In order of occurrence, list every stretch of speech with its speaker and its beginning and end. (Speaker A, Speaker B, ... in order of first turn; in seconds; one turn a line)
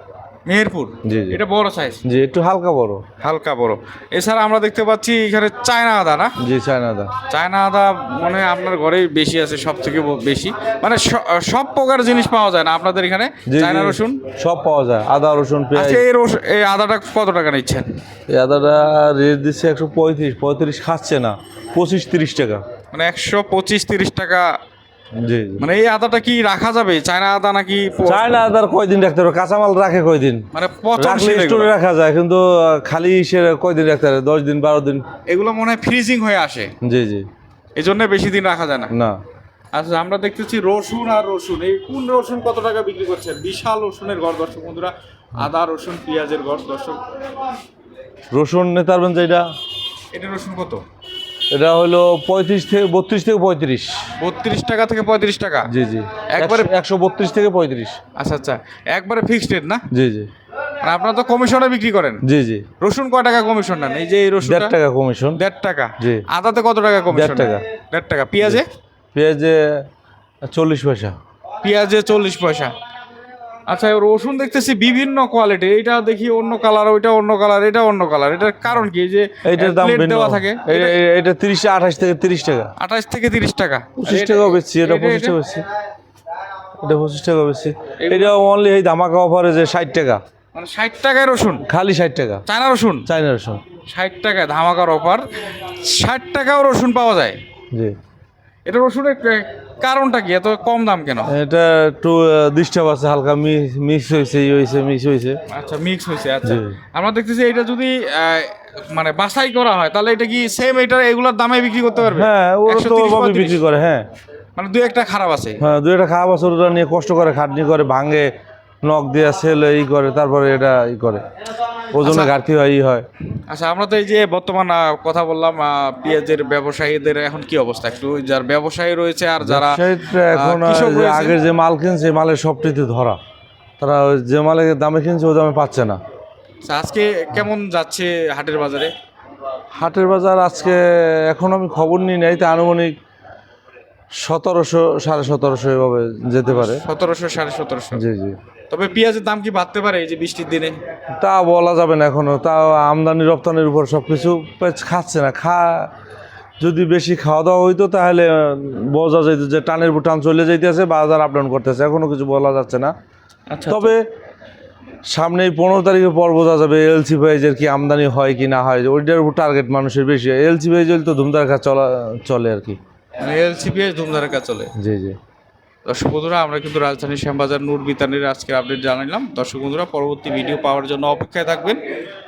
Speaker A: 0.5-2.0
Speaker B: 1.0-1.4
Speaker B: 2.0-3.0
Speaker A: 3.2-6.3
Speaker B: 6.4-7.1
Speaker A: 7.3-14.2
Speaker B: 13.5-16.1
Speaker A: 15.7-17.9
Speaker B: 18.3-22.6
Speaker A: 22.9-24.5
Speaker B: 25.1-25.6
Speaker A: 25.6-28.3
Speaker B: 28.0-30.4
Speaker A: 30.5-31.7
Speaker B: 31.0-35.0
Speaker A: 35.2-36.7
Speaker B: 36.8-37.3
Speaker A: 37.8-38.9
Speaker B: 38.9-39.2
Speaker A: 39.7-47.0
Speaker B: 48.3-49.5
Speaker A: 50.1-50.8
Speaker B: 51.5-53.9
Speaker A: 54.2-55.7
Speaker B: 55.7-58.0
Speaker A: 56.3-56.7
Speaker A: 58.1-59.8
Speaker B: 59.9-60.3
Speaker A: 60.8-62.2
Speaker B: 62.2-62.6
Speaker A: 62.8-64.7
Speaker B: 64.4-65.4
Speaker A: 65.3-68.7
Speaker B: 67.1-67.6
Speaker B: 69.1-69.8
Speaker B: 70.4-71.2
Speaker A: 71.6-72.7
Speaker A: 73.7-81.0
Speaker B: 79.4-82.7
Speaker A: 82.8-85.4
Speaker B: 84.0-85.6
Speaker B: 86.8-90.2
Speaker A: 88.0-88.3
Speaker A: 90.5-91.6
Speaker B: 91.7-92.4
Speaker A: 92.5-93.0
Speaker B: 93.0-93.6
Speaker A: 93.8-97.4
Speaker A: 98.7-101.3
Speaker B: 101.3-105.4
Speaker A: 105.5-113.6
Speaker B: 106.4-106.8
Speaker B: 112.0-114.0
Speaker A: 114.5-115.6
Speaker B: 115.6-118.3
Speaker B: 118.8-121.2
Speaker B: 121.9-123.1
Speaker A: 122.0-122.4
Speaker A: 123.5-131.3
Speaker B: 129.4-133.2
Speaker B: 133.8-136.0
Speaker A: 136.6-138.9
Speaker B: 139.7-142.9
Speaker B: 144.2-146.8
Speaker A: 146.4-148.0
Speaker B: 147.9-148.4
Speaker A: 148.7-150.8
Speaker B: 151.2-155.9
Speaker B: 156.6-162.9
Speaker A: 163.5-163.9
Speaker B: 163.7-164.0
Speaker B: 165.1-172.8
Speaker A: 173.2-174.7
Speaker B: 174.8-175.2
Speaker A: 175.8-181.8